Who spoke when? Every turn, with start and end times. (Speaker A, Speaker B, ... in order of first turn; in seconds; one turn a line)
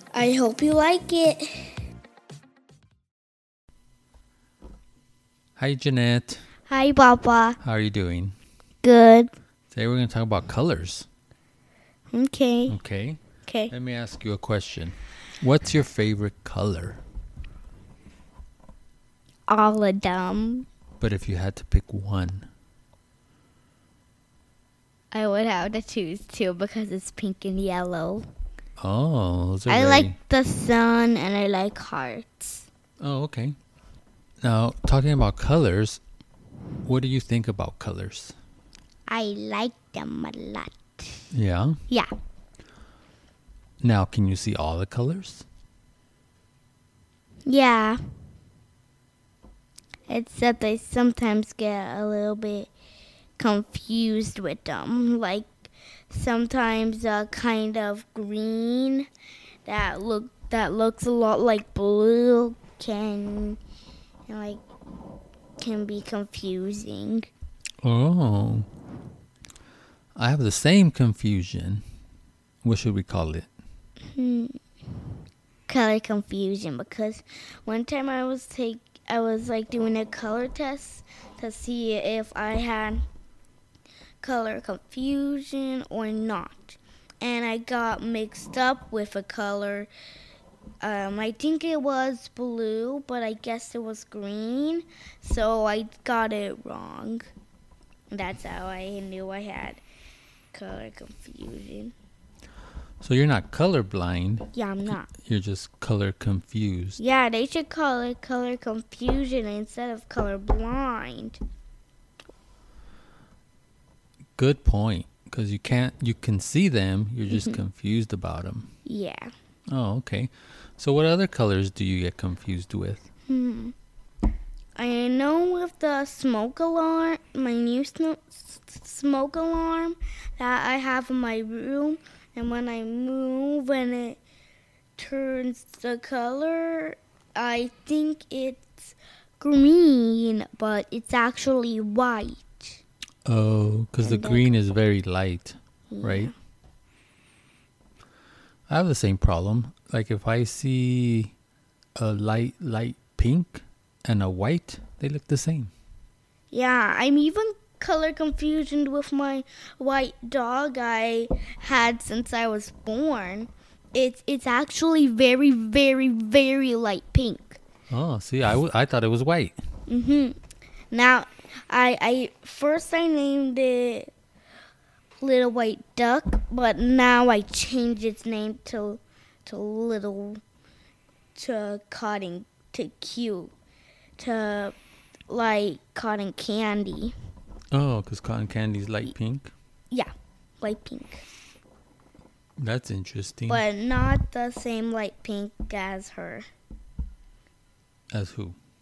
Speaker A: 0.1-1.8
Speaker B: 5.6-6.5
Speaker A: 6.7-7.6
Speaker B: 7.6-8.3
Speaker A: 8.8-9.3
Speaker B: 9.7-11.1
Speaker A: 12.1-12.8
Speaker B: 12.7-17.0
Speaker A: 13.5-13.7
Speaker A: 19.5-20.7
Speaker B: 21.0-22.5
Speaker A: 25.1-28.3
Speaker B: 28.8-30.2
Speaker A: 29.7-32.7
Speaker B: 33.0-33.6
Speaker B: 34.4-36.0
Speaker B: 36.9-38.4
Speaker A: 39.1-41.2
Speaker B: 41.3-41.8
Speaker B: 43.8-45.5
Speaker A: 47.5-48.0
Speaker A: 50.1-52.7
Speaker A: 53.4-59.1
Speaker A: 59.6-63.6
Speaker A: 64.3-64.6
Speaker A: 65.6-67.3
Speaker B: 67.8-68.7
Speaker B: 70.2-71.8
Speaker B: 72.6-73.5
Speaker A: 74.2-74.6
Speaker A: 75.7-83.0
Speaker A: 84.2-89.9
Speaker A: 90.8-97.3
Speaker A: 98.1-99.8
Speaker A: 100.5-101.9
Speaker B: 103.0-104.5
Speaker A: 104.5-105.1
Speaker B: 105.1-107.0
Speaker A: 107.0-111.4
Speaker B: 114.4-118.7
Speaker A: 117.3-117.6
Speaker A: 118.9-119.3
Speaker B: 119.7-123.1
Speaker A: 123.3-123.7
Speaker A: 124.8-134.2
Speaker A: 135.0-142.8
Speaker B: 143.3-146.3
Speaker A: 144.0-144.6
Speaker A: 145.9-146.3
Speaker B: 148.7-151.3
Speaker B: 152.0-155.7
Speaker A: 156.5-167.6
Speaker B: 167.9-169.6
Speaker A: 169.9-170.4
Speaker A: 170.9-174.1
Speaker A: 175.2-180.4
Speaker A: 181.3-183.5
Speaker A: 184.2-184.8
Speaker A: 185.3-187.1
Speaker B: 187.7-189.5
Speaker A: 189.9-191.2
Speaker B: 192.6-193.6
Speaker A: 193.5-196.5
Speaker B: 198.1-198.6